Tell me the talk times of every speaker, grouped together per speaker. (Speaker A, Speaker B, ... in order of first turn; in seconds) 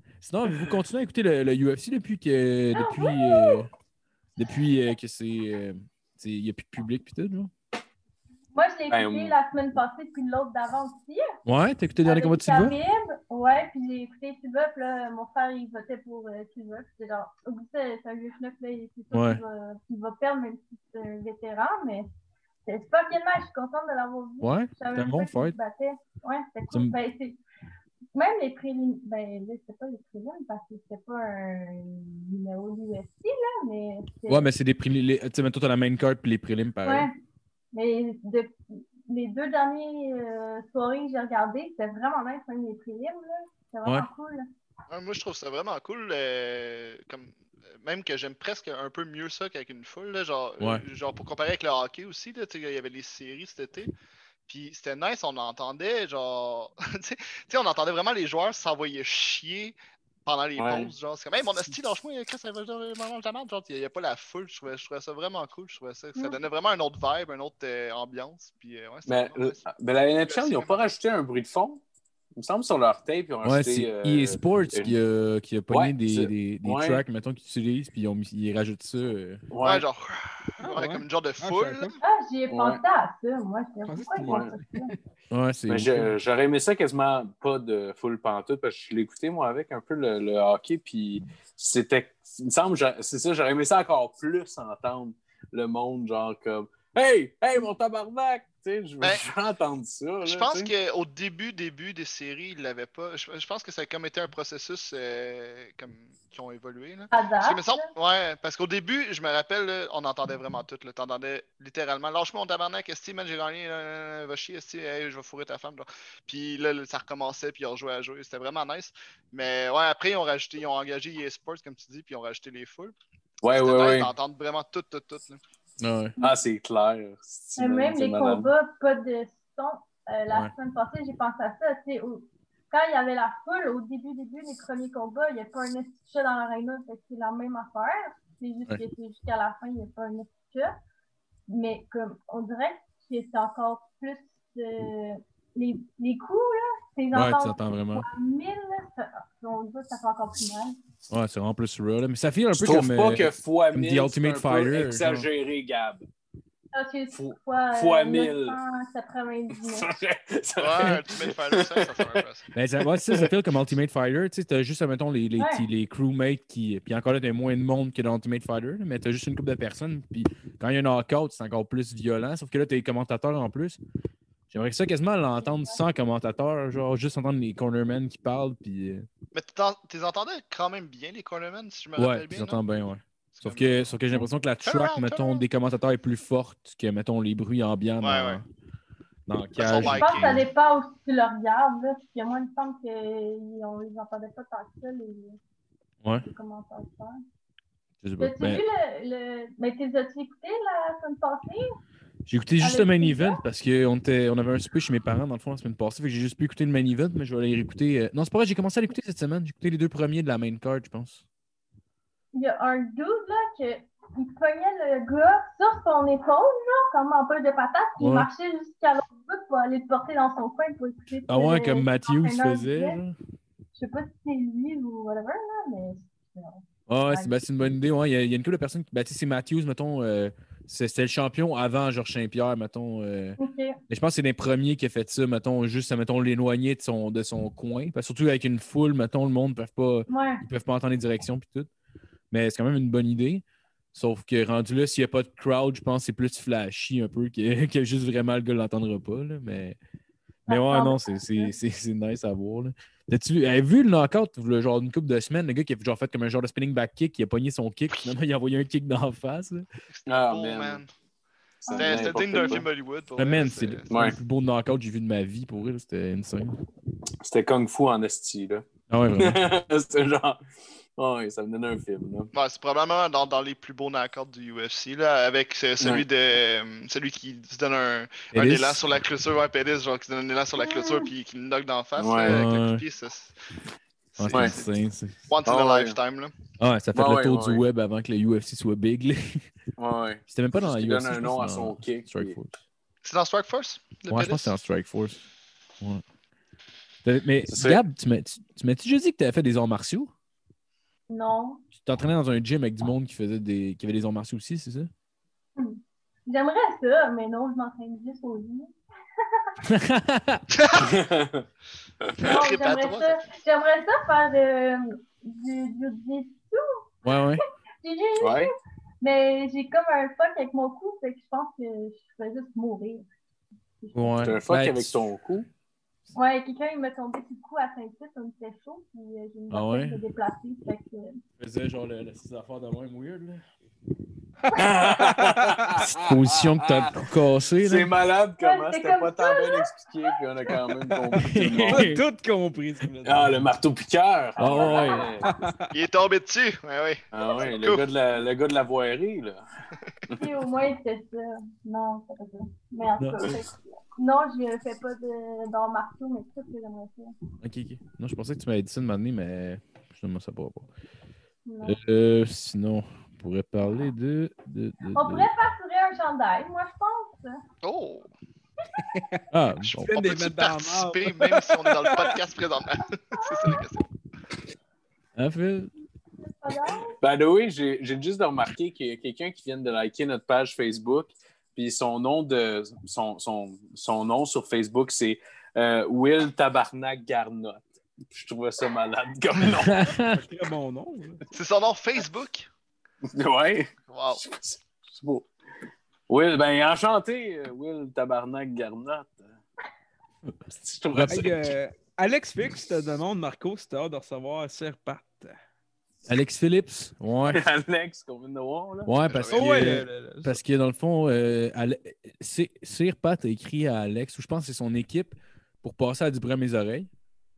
Speaker A: 0.2-3.7, 4.4-7.5, 11.4-12.8, 19.1-19.4, 24.4-25.6, 34.3-37.1, 73.4-79.4, 85.3-86.1, 125.8-126.2, 147.1-148.1, 151.1-155.3, 162.5-173.8, 174.5-179.1, 182.0-188.4, 189.3-190.5, 198.0-198.6, 202.2-211.2, 218.0-218.3, 221.3-223.1, 226.9-233.4, 233.9-241.7, 242.3-243.4, 243.9-249.8, 250.5-259.7, 263.2-266.6, 268.9-269.4, 278.3-278.8, 282.2-282.8, 284.2-285.2, 286.6-289.4, 290.3-292.6, 294.1-295.2, 297.0-300.1, 301.8-304.9, 309.6-310.4, 317.0-317.4, 323.9-325.0, 329.5-330.0, 331.4-333.4, 335.8-337.9, 341.2-342.0, 344.4-345.1, 353.0-353.3, 357.4-360.7, 361.6-365.3, 369.3-369.9, 375.1-375.7, 389.5-390.2, 400.9-401.3, 406.1-407.4, 408.9-416.9
Speaker B: 2.7-3.6, 8.5-11.3, 12.0-22.1, 22.6-27.4, 28.1-34.5, 36.8-37.1, 37.7-44.4, 82.0-84.9, 107.1-107.9, 127.6-140.7, 141.5-150.8, 156.7-159.9, 165.4-165.7, 175.4-175.8, 189.7-195.4, 196.2-197.2, 198.2-201.7, 202.6-203.4, 212.3-223.0, 223.8-227.3, 233.4-233.8, 240.1-240.4, 250.5-251.5, 261.7-262.6, 280.6-281.0, 301.1-301.6, 305.6-308.7, 312.2-316.8, 317.8-323.1, 323.8-324.3, 326.1-331.2, 338.4-340.1, 344.4-345.1, 350.1-357.1, 361.4-361.8, 364.9-367.4, 373.1-373.6, 376.2-376.9
Speaker C: 8.9-9.3, 60.6-60.9, 69.1-71.8, 72.4-75.0, 75.7-77.0, 79.5-79.9, 82.5-82.8, 84.2-84.5, 85.7-100.7, 123.4-124.1, 126.2-128.5, 152.5-156.1, 157.1-158.6, 159.6-162.2, 162.9-163.3, 260.1-260.8, 261.6-262.7, 263.9-264.2, 267.2-270.4, 271.0-272.3, 275.8-276.0, 282.0-282.4, 285.4-286.0, 286.9-287.6, 289.8-292.4, 297.5-297.8, 310.8-311.4, 318.2-318.5, 324.2-325.5, 334.5-336.9, 337.6-341.9, 343.0-345.3, 347.1-349.4, 377.0-389.9, 393.1-395.3, 396.1-399.4, 400.5-401.5, 407.3-409.0
Speaker D: 44.9-53.9, 54.5-69.6, 70.2-70.8, 79.6-82.0, 100.2-122.9, 123.5-125.4, 160.6-162.5, 179.3-182.6, 183.3-183.9, 184.6-185.4, 188.0-188.4, 189.6-190.4, 259.9-260.9, 261.7-263.9, 272.3-283.3, 284.1-284.6, 285.3-286.3, 293.0-294.5, 310.5-310.9, 312.2-313.3, 345.7-347.9, 367.6-368.1, 369.7-373.8, 391.3-392.5, 393.9-394.2, 409.0-409.7
Speaker E: 80.6-82.0, 83.9-85.0, 334.5-335.7, 341.7-343.4, 345.2-345.7, 368.9-369.2, 369.8-372.2, 390.0-391.2, 401.1-405.4, 409.3-410.4